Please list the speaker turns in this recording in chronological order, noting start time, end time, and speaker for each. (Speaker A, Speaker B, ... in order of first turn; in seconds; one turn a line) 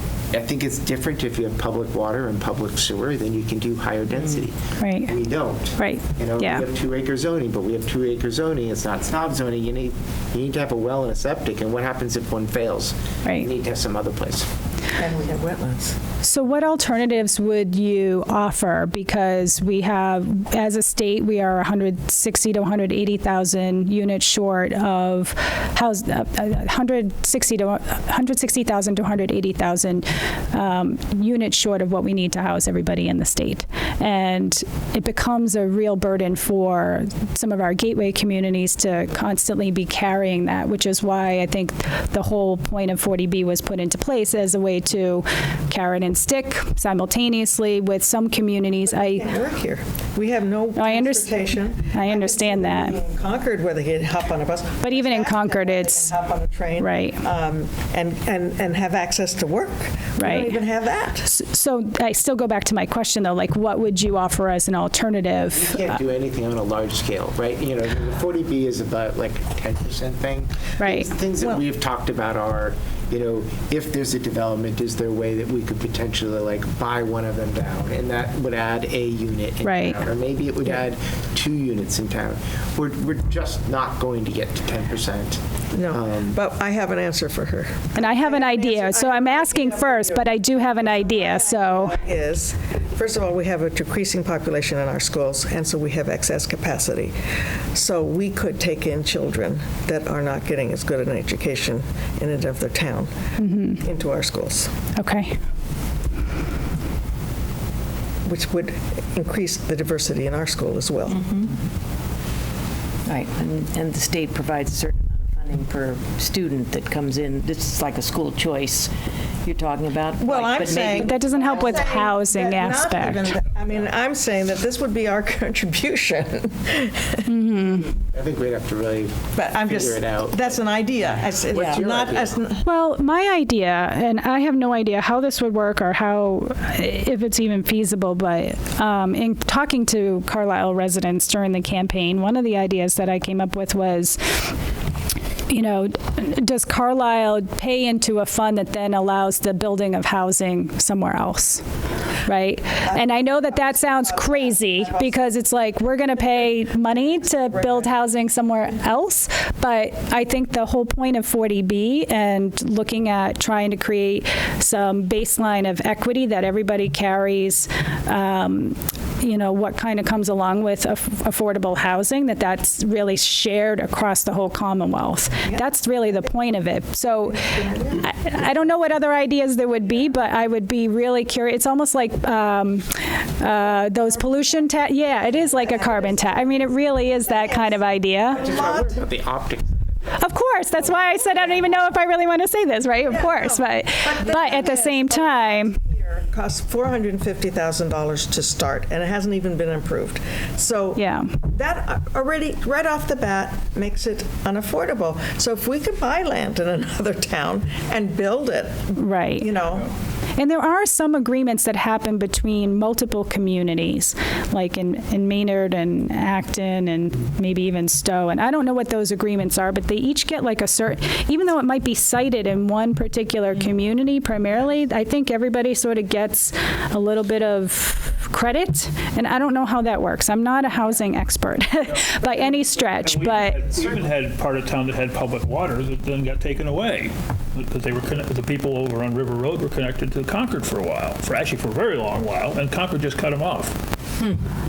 Speaker A: 0.3-14.5
Speaker B: 4.8-5.1
Speaker B: 5.8-6.6
Speaker C: 15.0-16.0
Speaker B: 16.2-49.3
Speaker C: 48.9-61.3
Speaker B: 50.7-53.0
Speaker B: 54.8-56.1
Speaker B: 56.8-57.2
Speaker B: 60.2-60.6
Speaker B: 61.2-66.0
Speaker A: 65.5-86.4
Speaker B: 70.8-71.1
Speaker B: 79.6-80.0
Speaker C: 85.7-97.1
Speaker B: 87.9-92.0
Speaker C: 97.7-103.1
Speaker B: 103.4-103.8
Speaker C: 103.8-104.7
Speaker B: 104.9-105.3
Speaker C: 108.2-111.2
Speaker D: 113.1-118.9
Speaker D: 119.4-121.8
Speaker C: 120.2-127.2
Speaker B: 121.0-123.4
Speaker B: 127.2-127.9
Speaker A: 128.1-130.7
Speaker C: 129.3-132.6
Speaker A: 131.3-132.4
Speaker B: 132.6-144.2
Speaker B: 145.5-151.6
Speaker B: 152.2-188.6
Speaker C: 154.3-155.1
Speaker C: 177.3-178.0
Speaker C: 185.6-186.5
Speaker C: 187.3-187.8
Speaker C: 188.3-189.0
Speaker A: 188.3-189.8
Speaker B: 190.1-195.8
Speaker C: 193.0-209.9
Speaker B: 200.9-201.3
Speaker B: 208.9-209.5
Speaker B: 210.4-233.6
Speaker E: 232.9-243.8